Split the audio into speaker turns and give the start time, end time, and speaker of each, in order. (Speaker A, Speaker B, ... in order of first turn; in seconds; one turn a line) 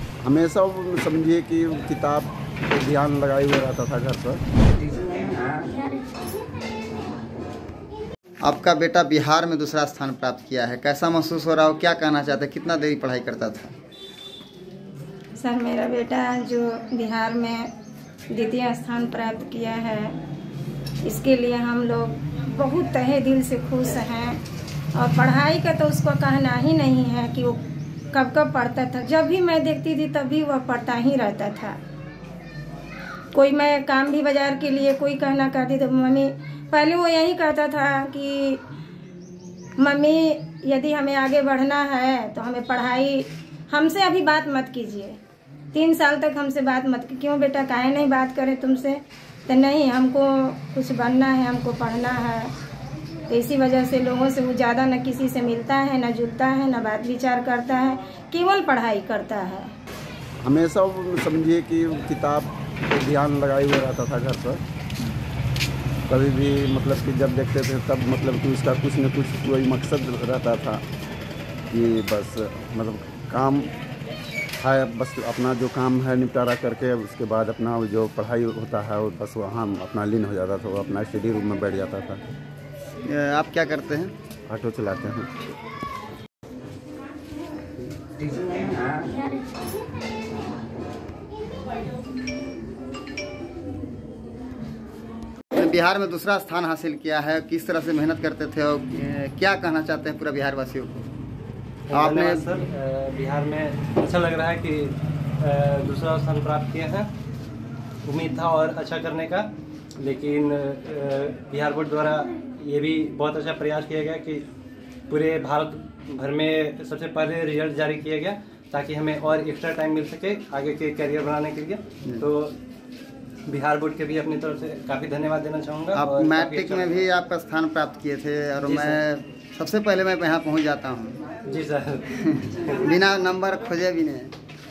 Speaker A: 0.2-4.4
Speaker B: 8.4-13.7
Speaker C: 15.4-17.7
Speaker C: 18.3-20.2
Speaker C: 21.0-24.4
Speaker C: 25.0-27.6
Speaker C: 28.1-31.8
Speaker C: 33.3-38.6
Speaker C: 39.8-45.2
Speaker C: 45.7-52.5
Speaker C: 53.3-59.7
Speaker A: 60.4-64.6
Speaker A: 66.1-70.8
Speaker A: 71.7-73.7
Speaker A: 74.6-82.2
Speaker B: 83.0-84.1
Speaker A: 84.5-85.3
Speaker B: 95.6-101.1
Speaker D: 101.9-107.1
Speaker B: 101.9-102.5
Speaker D: 108.0-114.5
Speaker D: 115.1-122.5
Speaker D: 123.5-127.1
Speaker B: 126.0-131.2
Speaker D: 128.7-129.0
Speaker D: 131.5-132.7
Speaker B: 132.2-134.3